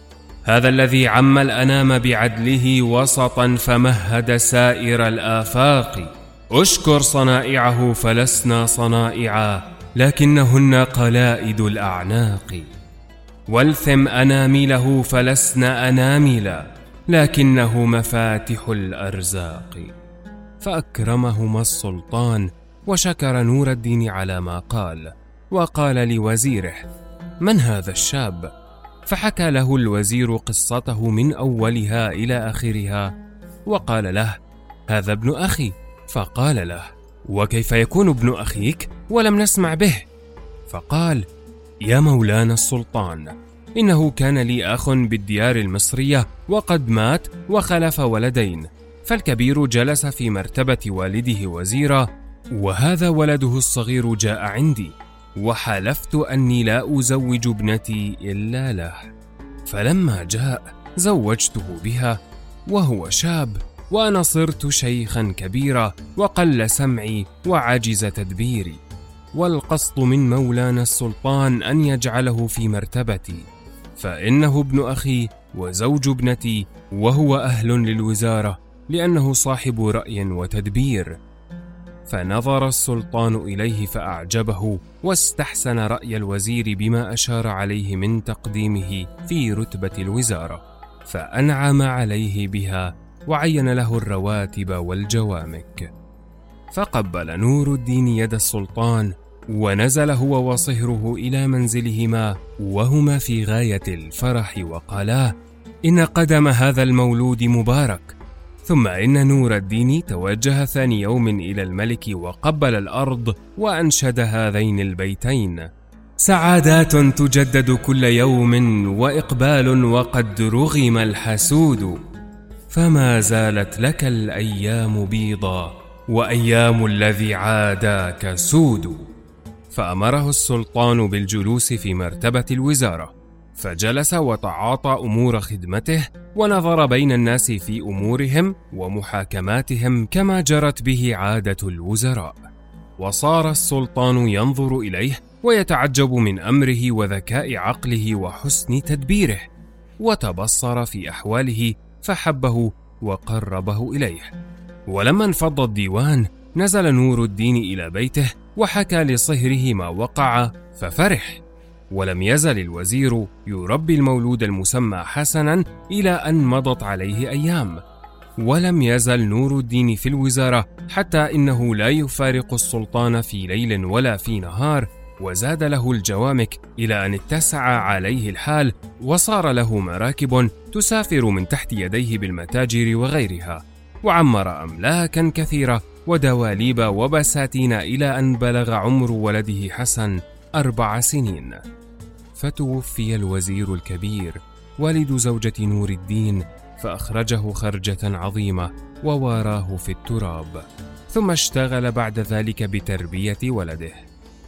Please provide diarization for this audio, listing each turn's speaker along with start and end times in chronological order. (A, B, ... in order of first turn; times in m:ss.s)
0:00.5-0:12.7 A
0:13.5-0:19.9 A
0:20.6-0:26.9 A
0:27.4-0:28.5 A
0:29.1-0:33.1 A
0:33.7-0:40.1 A
0:40.7-0:41.2 A
0:41.8-0:59.1 A
0:59.7-1:08.8 A
1:09.3-1:21.2 A
1:22.1-1:35.9 A
1:36.7-1:45.3 A
1:45.9-1:48.1 A
1:48.6-1:55.7 A
1:56.2-2:02.0 A
2:02.7-2:09.0 A
2:09.7-2:22.4 A
2:23.0-2:29.5 A
2:30.0-2:34.3 A
2:34.9-2:47.8 A
2:48.4-3:11.6 A
3:12.4-3:24.0 A